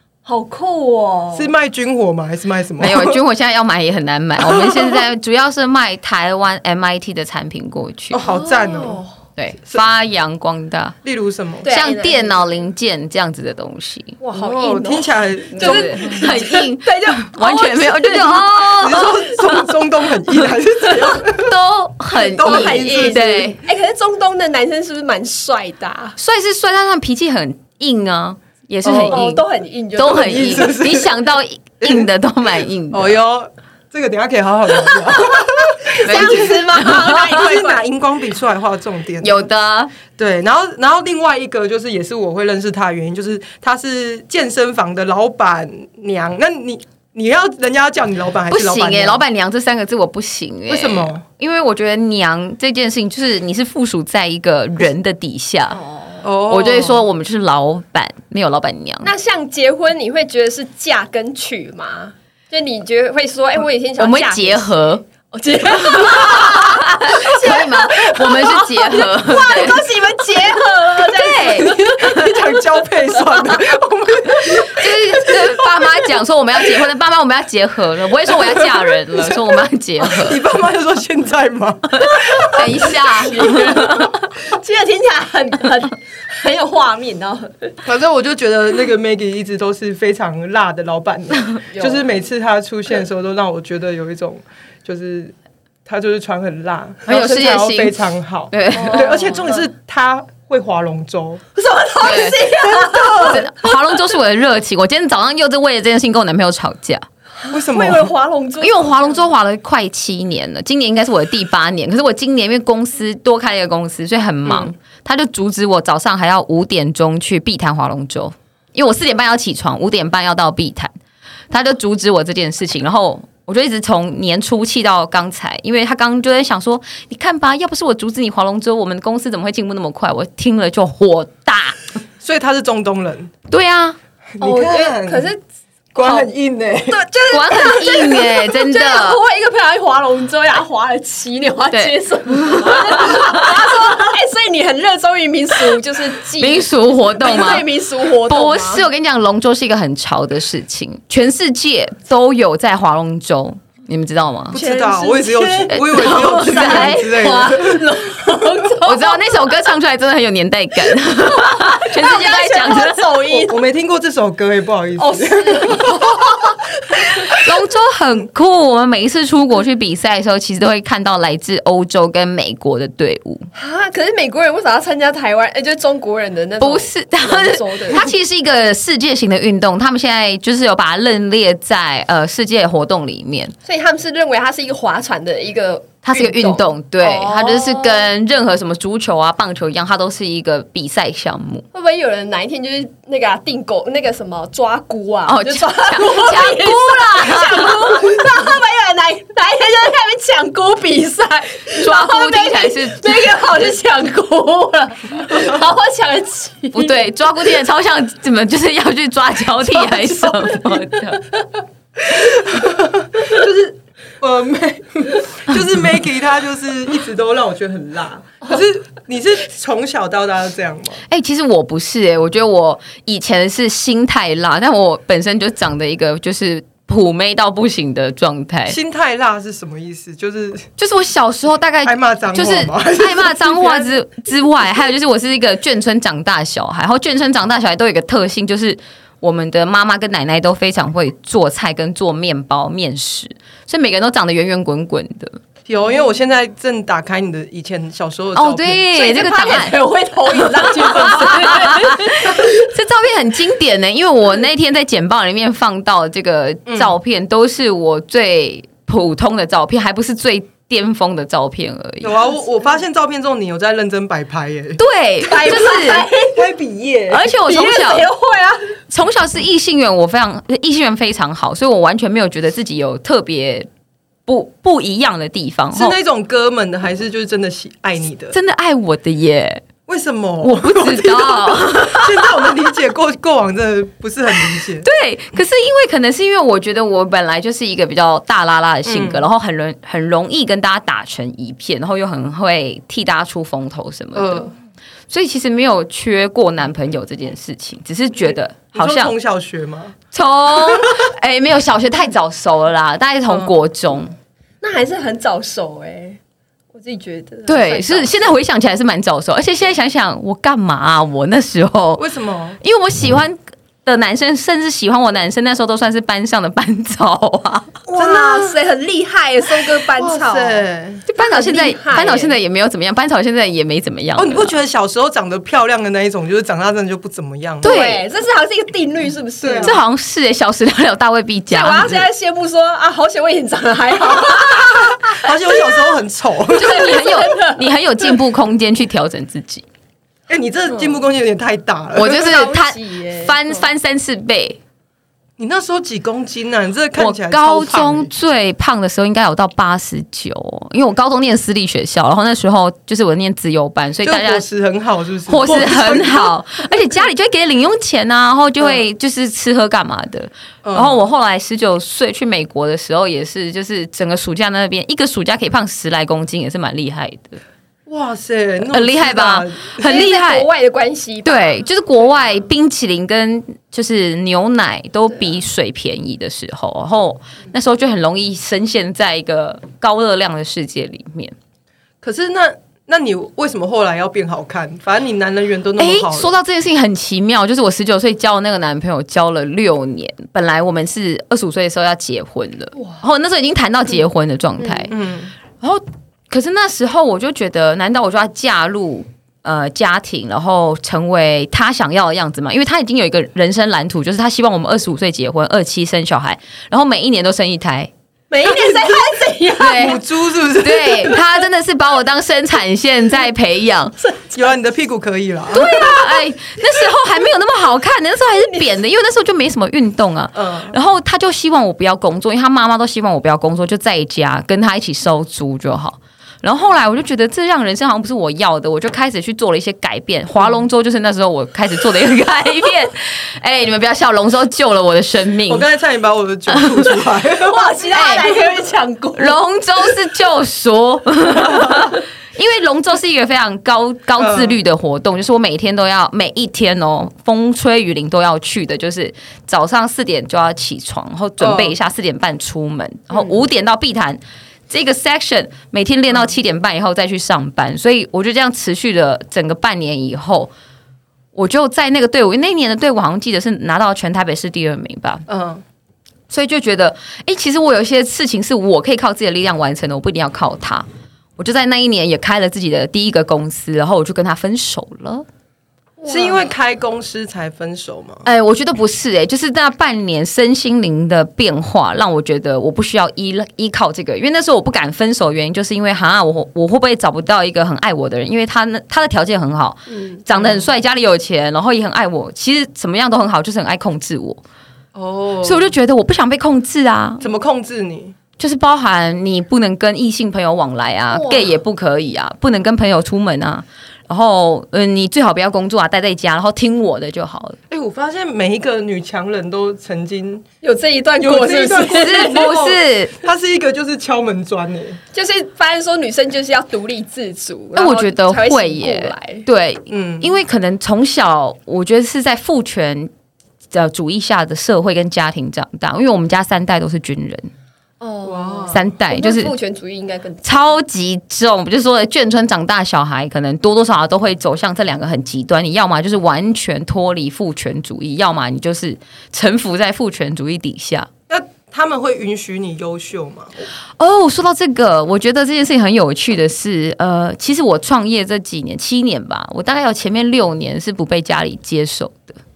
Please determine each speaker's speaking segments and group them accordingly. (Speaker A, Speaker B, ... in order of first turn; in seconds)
Speaker A: 0.3-1.5, 8.3-9.1, 11.6-12.5, 14.2-19.3, 22.4-26.2, 29.0-30.8, 35.4-37.8, 55.7-56.3, 59.0-72.6, 73.1-73.7, 82.1-87.8, 91.7-92.0, 98.7-99.7, 101.5-103.7, 107.4-109.2, 134.4-135.4, 136.0-136.3, 136.9-148.8, 154.5-159.2, 161.3-163.6, 165.0-167.5, 173.6-178.1, 183.7-188.0, 191.7-207.0, 212.1-212.5, 248.9-252.6, 265.2-266.4, 267.4-268.8, 304.6-306.2, 306.7-308.2, 317.9-320.6, 321.2-322.4, 327.6-329.8, 331.5-335.8, 336.6-337.6, 342.0-343.6, 369.8-371.5, 408.3-410.0, 414.0-414.4, 415.5-416.2, 437.3-439.4, 476.0-476.5, 489.9-490.2, 501.1-501.6, 510.6-512.4, 515.1-519.5, 528.0-530.7
Speaker B: 1.3-3.2, 4.5-4.9, 8.1-9.0, 11.0-11.7, 14.3-16.4, 18.5-21.5, 22.1-23.4, 28.8-29.3, 30.1-31.1, 31.8-32.1, 32.9-39.4, 40.2-49.2, 50.7-51.2, 56.2-57.1, 72.0-74.9, 80.0-82.9, 87.8-95.3, 95.9-101.4, 102.9-103.4, 107.5-108.1, 114.5-114.7, 132.2-133.3, 134.4-135.3, 135.9-137.0, 154.5-157.8, 163.3-166.1, 212.1-221.0, 228.7-230.7, 231.8-233.9, 245.7-248.9, 256.7-256.9, 262.0-264.8, 266.3-267.3, 275.7-278.4, 279.9-284.9, 288.9-289.3, 294.1-294.5, 298.8-300.0, 300.6-300.9, 303.3-303.6, 312.0-312.6, 318.0-318.6, 319.9-321.1, 324.2-327.7, 329.4-329.8, 335.1-336.9, 340.3-342.4, 345.4-348.1, 354.0-356.4, 360.6-361.0, 367.9-370.0, 382.0-386.3, 394.9-395.3, 408.5-409.0, 409.6-411.2, 414.3-415.9, 420.4-420.7, 430.4-430.6, 435.5-437.8, 444.2-444.6, 451.4-451.8, 465.3-465.6, 476.1-478.2, 490.3-490.7, 494.9-495.7, 497.2-498.1, 507.7-510.4, 511.2-515.0, 519.9-520.3, 528.2-528.8, 541.3-543.6
Speaker C: 2.8-8.2, 9.4-11.0, 11.7-14.2, 15.6-19.8, 20.4-23.6, 26.2-29.4, 30.0-33.1, 36.0-37.2, 39.2-39.9, 48.5-55.8, 56.5-59.1, 64.0-65.0, 65.8-69.9, 71.0-72.3, 74.4-80.4, 82.4-84.1, 97.1-98.0, 98.5-99.1, 102.0-107.1, 108.6-120.9, 121.5-131.9, 133.5-134.0, 137.3-139.2, 141.7-143.6, 146.4-147.7, 148.2-154.6, 155.8-157.5, 158.8-163.2, 167.3-173.5, 176.6-183.5, 186.1-191.7, 195.3-198.0, 201.8-203.4, 206.7-211.2, 221.1-228.8, 230.8-245.4, 248.3-249.8, 250.5-262.2, 264.8-266.1, 267.1-268.1, 268.9-273.7, 274.3-275.9, 278.3-279.6, 280.4-282.6, 284.5-294.5, 295.1-299.1, 300.1-304.1, 307.5-312.1, 312.6-317.8, 321.1-324.5, 327.6-328.0, 329.6-332.1, 336.6-339.6, 341.9-344.6, 347.0-354.4, 355.3-367.4, 368.7-370.5, 371.2-381.3, 385.8-394.9, 395.6-407.9, 409.6-410.0, 410.6-414.0, 415.5-435.7, 436.6-436.8, 437.9-438.4, 439.2-460.5, 461.3-465.2, 466.3-470.9, 471.4-475.3, 478.2-494.4, 495.4-497.2, 498.4-507.6, 512.0-513.1, 517.8-523.1, 523.7-527.5, 528.7-529.5, 530.4-541.1, 544.0-552.4